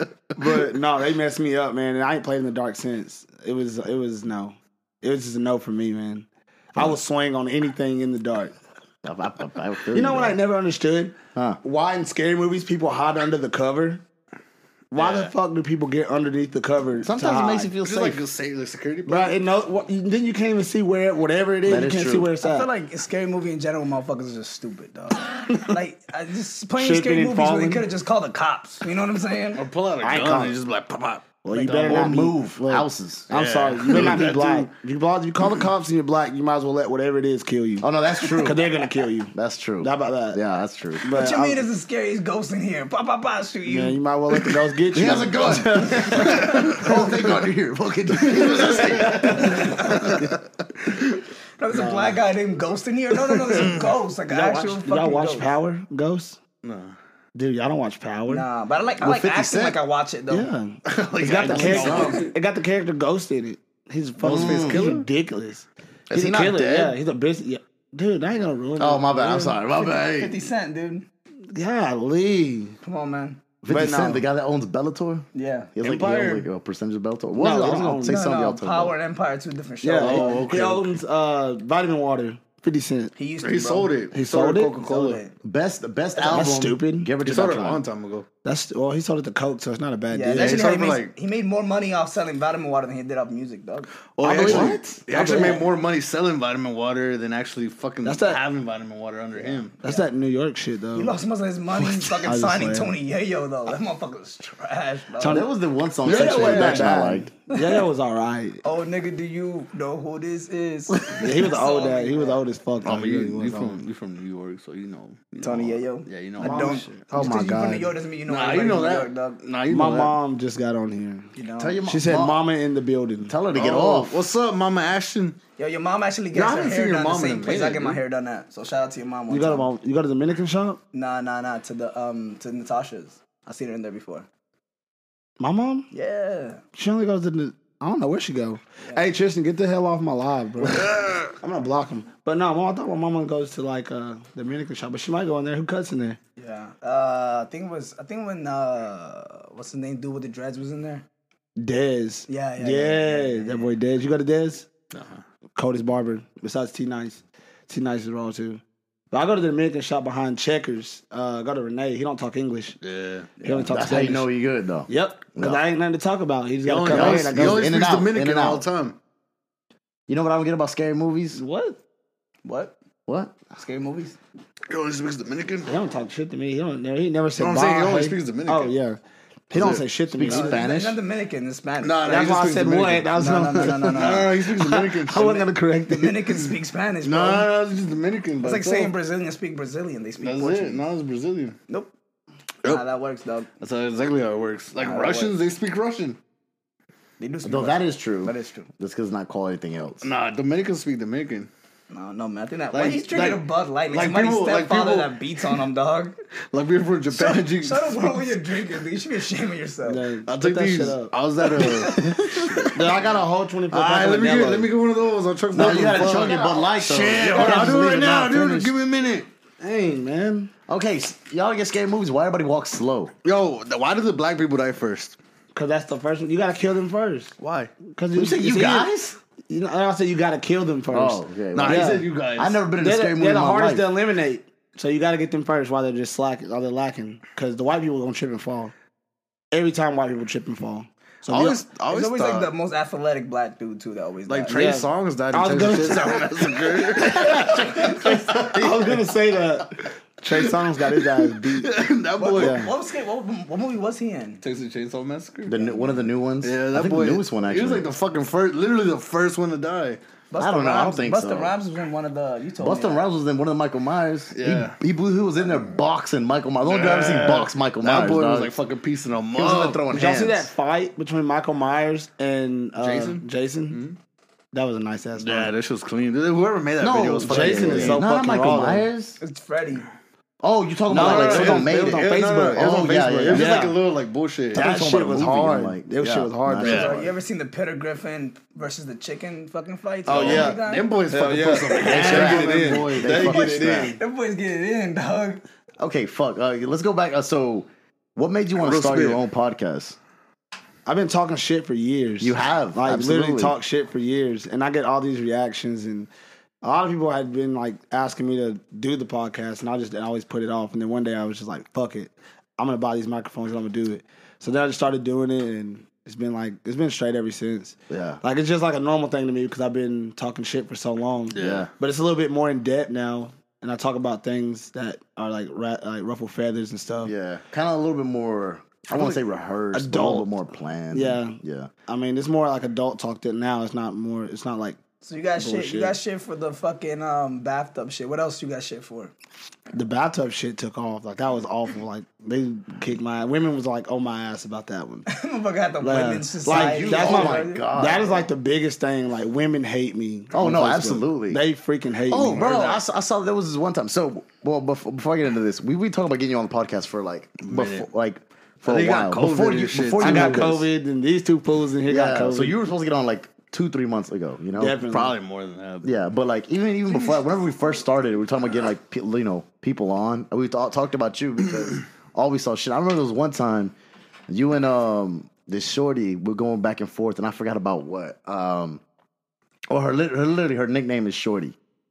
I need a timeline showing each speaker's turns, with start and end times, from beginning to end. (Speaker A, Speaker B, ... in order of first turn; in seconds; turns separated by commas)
Speaker A: 0.3-8.5, Speaker B: 9.0-10.4, Speaker A: 9.9-14.0, Speaker A: 14.9-17.7, Speaker C: 14.9-15.3, Speaker B: 17.0-18.2, Speaker C: 17.8-19.4, Speaker A: 19.1-22.7, Speaker B: 21.6-22.3, Speaker D: 22.4-29.6, Speaker A: 26.8-27.9, Speaker C: 29.6-32.1, Speaker A: 30.0-30.6, Speaker A: 31.4-37.9, Speaker D: 31.5-32.1, Speaker B: 31.7-33.3, Speaker C: 33.3-34.7, Speaker B: 33.9-34.2, Speaker B: 37.8-38.6, Speaker A: 38.4-40.4, Speaker B: 39.3-41.0, Speaker A: 41.0-41.6, Speaker D: 41.1-44.0, Speaker A: 43.6-47.1, Speaker B: 44.9-50.3, Speaker C: 46.2-46.8, Speaker A: 48.8-49.9, Speaker D: 49.0-50.1, Speaker D: 51.6-55.5, Speaker A: 51.7-52.2, Speaker C: 53.5-54.0, Speaker A: 54.3-56.4, Speaker C: 56.6-56.9, Speaker A: 57.4-58.5, Speaker D: 58.3-60.5, Speaker B: 59.0-59.8, Speaker A: 60.3-69.6, Speaker C: 60.9-62.2, Speaker D: 61.4-62.3, Speaker B: 61.5-62.2, Speaker C: 64.2-65.1, Speaker B: 64.2-64.9, Speaker B: 66.1-67.0, Speaker B: 68.8-70.4, Speaker D: 69.8-71.1, Speaker A: 71.5-72.8, Speaker D: 72.8-73.4, Speaker B: 73.6-79.0, Speaker A: 73.7-74.2, Speaker D: 75.3-75.7, Speaker C: 75.8-76.5, Speaker A: 77.3-78.2, Speaker D: 78.0-80.6, Speaker A: 79.8-83.1, Speaker C: 80.0-80.9, Speaker D: 83.2-83.9, Speaker C: 83.4-85.2, Speaker A: 84.1-84.8, Speaker D: 84.8-85.3, Speaker B: 85.4-87.8, Speaker A: 86.2-87.1, Speaker C: 87.2-88.3, Speaker A: 88.4-90.6, Speaker D: 90.1-93.9, Speaker C: 90.4-91.1, Speaker C: 94.2-99.7, Speaker A: 94.2-95.6, Speaker B: 94.3-94.9, Speaker D: 95.1-95.7, Speaker A: 98.0-98.4, Speaker D: 99.4-100.1, Speaker A: 99.8-101.2, Speaker D: 101.0-105.5, Speaker A: 102.2-103.0, Speaker A: 105.2-105.5, Speaker B: 105.2-107.3, Speaker A: 106.0-108.6, Speaker D: 106.0-107.0, Speaker D: 107.5-107.8, Speaker D: 108.6-112.4, Speaker A: 111.2-113.8, Speaker C: 112.8-116.9, Speaker D: 115.4-119.4, Speaker A: 116.4-117.9, Speaker C: 118.3-120.2, Speaker A: 119.7-121.3, Speaker D: 121.4-121.8, Speaker B: 121.6-122.4, Speaker A: 121.8-123.3, Speaker B: 123.3-124.2, Speaker C: 123.5-125.4, Speaker D: 125.6-129.7, Speaker C: 126.3-128.0, Speaker A: 129.3-130.8, Speaker D: 130.9-134.3, Speaker A: 135.4-135.9, Speaker D: 135.9-136.6, Speaker A: 136.8-146.2, Speaker C: 140.6-141.3, Speaker D: 146.4-151.0, Speaker A: 151.6-154.7, Speaker D: 152.3-153.8, Speaker C: 154.9-155.2, Speaker A: 155.6-162.8, Speaker C: 162.8-163.3, Speaker D: 163.4-163.7, Speaker A: 163.4-164.3, Speaker B: 163.6-165.6, Speaker A: 164.9-167.7, Speaker C: 166.6-169.0, Speaker B: 166.9-168.7, Speaker B: 170.1-171.4, Speaker A: 171.3-171.8, Speaker D: 172.4-172.8, Speaker B: 173.1-173.3, Speaker D: 173.5-174.2, Speaker C: 174.7-175.7, Speaker A: 175.7-180.6, Speaker C: 177.4-178.8, Speaker C: 179.5-179.8, Speaker B: 179.6-181.0, Speaker D: 180.2-182.4, Speaker C: 181.8-183.1, Speaker A: 182.0-186.5, Speaker D: 183.1-184.3, Speaker C: 183.7-185.4, Speaker D: 185.1-187.5, Speaker C: 187.0-188.9, Speaker D: 188.4-190.8, Speaker C: 190.2-191.6, Speaker D: 192.6-193.5, Speaker C: 193.6-196.2, Speaker D: 194.8-195.3, Speaker D: 197.2-198.7, Speaker B: 197.4-200.0, Speaker C: 200.0-201.5, Speaker D: 201.9-206.1, Speaker C: 202.7-205.1, Speaker C: 206.5-208.2, Speaker D: 207.1-210.1, Speaker A: 209.8-211.1, Speaker C: 210.2-213.1, Speaker B: 212.0-212.3, Speaker A: 212.7-214.7, Speaker C: 213.7-219.3, Speaker B: 215.5-218.7, Speaker D: 216.3-216.6, Speaker A: 217.2-217.9, Speaker A: 219.6-220.5, Speaker B: 220.7-223.1, Speaker C: 223.2-225.2, Speaker A: 225.5-228.9, Speaker C: 227.4-227.7, Speaker B: 228.1-229.2, Speaker A: 229.5-232.1, Speaker B: 230.9-233.9, Speaker C: 231.5-232.6, Speaker A: 232.8-238.7, Speaker A: 239.5-241.6, Speaker C: 241.3-242.5, Speaker D: 241.9-244.8, Speaker C: 244.3-249.1, Speaker A: 244.5-251.7, Speaker B: 247.2-248.8, Speaker C: 250.3-252.7, Speaker D: 252.2-254.4, Speaker A: 252.4-252.7, Speaker C: 254.4-255.7, Speaker B: 255.5-257.9, Speaker C: 256.4-260.0, Speaker D: 260.3-263.0, Speaker B: 260.4-261.5, Speaker B: 262.6-268.6, Speaker C: 264.3-264.8, Speaker C: 266.6-269.8, Speaker B: 269.4-270.5, Speaker A: 269.9-273.8, Speaker C: 272.8-274.0, Speaker A: 274.5-275.5, Speaker C: 275.1-278.0, Speaker B: 276.8-279.2, Speaker A: 277.2-278.9, Speaker D: 279.2-279.9, Speaker B: 280.4-283.6, Speaker A: 280.9-283.8, Speaker C: 280.9-284.7, Speaker B: 284.5-287.1, Speaker A: 284.5-286.9, Speaker C: 286.6-287.0, Speaker D: 286.6-290.9, Speaker A: 290.1-294.0, Speaker C: 290.1-293.2, Speaker D: 291.7-292.0, Speaker B: 291.8-294.0, Speaker D: 293.1-295.4, Speaker B: 295.8-300.0, Speaker C: 298.6-299.2, Speaker A: 300.9-306.1, Speaker B: 302.2-303.6, Speaker A: 306.6-327.1, Speaker B: 317.9-318.2, Speaker C: 321.3-321.7, Speaker B: 321.4-321.7, Speaker B: 327.0-331.7, Speaker A: 328.9-329.2, Speaker A: 329.7-330.3, Speaker A: 330.9-334.8, Speaker D: 335.0-339.1, Speaker A: 335.4-336.0, Speaker A: 339.7-345.1, Speaker D: 345.1-347.6, Speaker A: 345.8-352.5, Speaker B: 346.5-348.3, Speaker B: 350.3-351.4, Speaker B: 352.1-360.7, Speaker C: 352.3-352.8, Speaker C: 357.4-357.9, Speaker C: 358.6-360.5, Speaker A: 360.0-362.6, Speaker B: 361.9-364.8, Speaker A: 364.6-365.1, Speaker C: 364.8-366.0, Speaker B: 365.8-373.7, Speaker B: 374.3-378.8, Speaker B: 379.7-381.5